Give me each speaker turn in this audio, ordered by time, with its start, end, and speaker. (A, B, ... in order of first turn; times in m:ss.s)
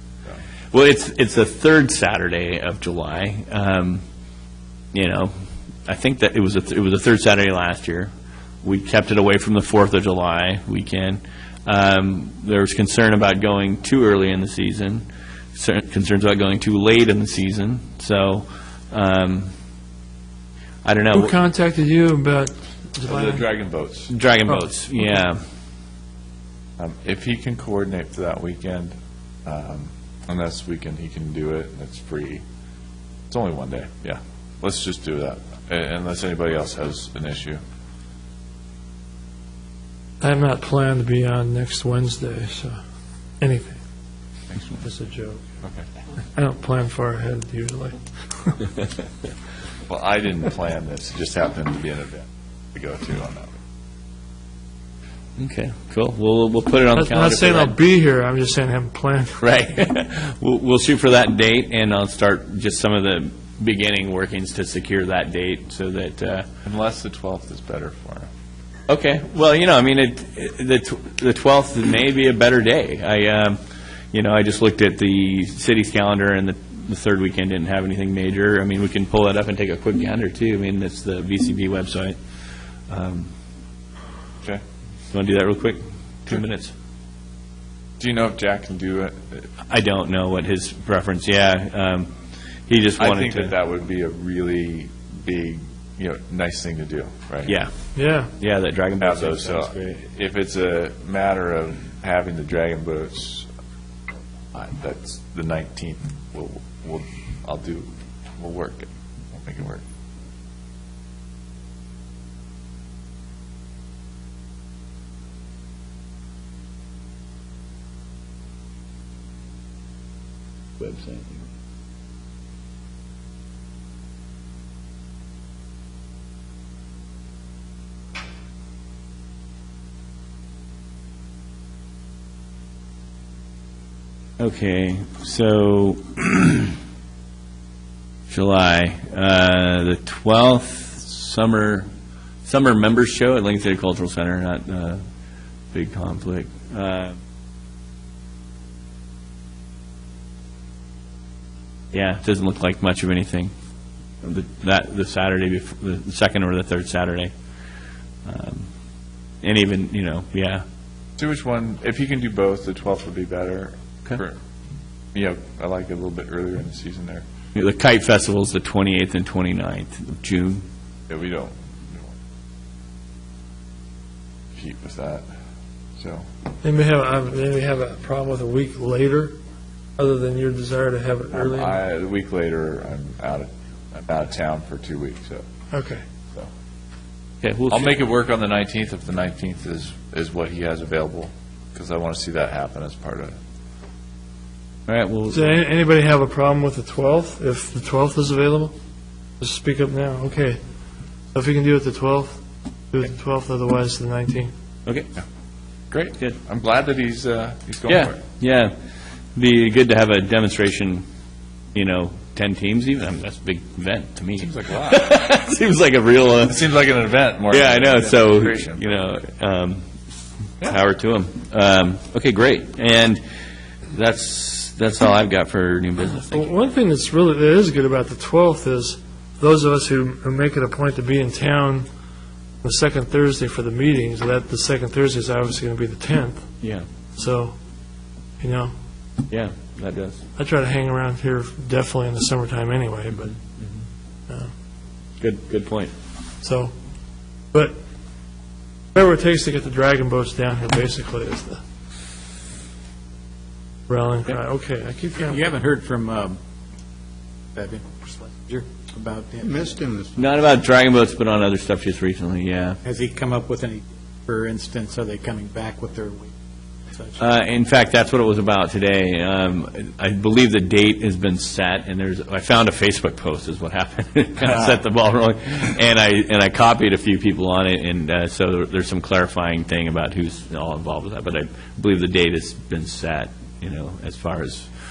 0:00.7-0:04.0 A
0:04.9-0:05.3 A
0:05.8-0:08.1 A
0:08.6-0:19.5 A
0:20.8-0:21.4 A
0:21.1-0:23.4 B
0:23.0-0:24.1 C
0:24.1-0:25.4 A
0:26.8-0:28.9 C
0:29.4-0:32.4 C
0:33.3-0:37.6 C
0:40.2-0:42.8 B
0:43.4-0:43.8 B
0:44.8-0:45.4 B
0:46.4-0:48.7 B
0:49.9-0:53.6 C
0:55.4-0:57.8 A
0:56.9-0:59.4 B
0:59.4-1:06.5 A
1:06.6-1:08.3 C
1:08.9-1:13.6 A
1:14.1-1:22.2 A
1:22.9-1:23.3 A
1:25.1-1:26.7 A
1:28.0-1:29.5 C
1:29.7-1:32.1 A
1:32.7-1:33.5 A
1:33.0-1:37.6 C
1:38.0-1:38.3 B
1:38.4-1:39.9 A
1:39.0-1:43.5 C
1:44.5-1:49.8 C
2:00.8-2:01.4 A
2:14.4-2:16.8 A
2:18.3-2:21.9 A
2:22.4-2:25.0 A
2:25.7-2:27.2 A
2:31.9-2:33.5 A
2:34.2-2:37.3 A
2:38.2-2:38.7 A
2:39.4-2:40.6 A
2:41.2-2:44.4 C
2:45.1-2:47.2 C
2:47.5-2:50.6 A
2:51.1-2:52.1 C
2:54.5-2:55.2 C
2:56.0-2:56.2 C
2:56.6-2:59.4 B
3:00.0-3:01.8 B
3:01.3-3:05.4 C
3:05.7-3:06.0 B
3:07.4-3:07.9 A
3:07.7-3:13.3 C
3:14.9-3:15.6 A
3:15.3-3:18.7 B
3:19.4-3:20.6 B
3:21.3-3:22.4 B
3:22.9-3:24.5 B
3:25.9-3:28.2 C
3:27.9-3:28.7 A
3:29.3-3:31.0 A
3:31.7-3:36.7 A
3:34.4-3:35.1 C
3:36.4-3:38.8 C
3:37.5-3:39.8 A
3:40.6-3:43.2 A
3:43.9-3:46.5 A
3:46.3-3:51.9 B
3:52.6-3:56.5 B
3:57.2-3:57.5 B
3:58.4-3:58.7 B
3:59.3-4:00.2 A
4:00.4-4:03.3 B
4:03.2-4:03.7 A
4:05.2-4:05.9 A
4:06.4-4:06.7 B
4:08.9-4:11.6 B
4:13.9-4:15.4 B
4:15.1-4:16.4 D
4:17.5-4:20.0 D
4:20.2-4:22.8 A
4:22.8-4:26.3 D
4:27.2-4:44.7 A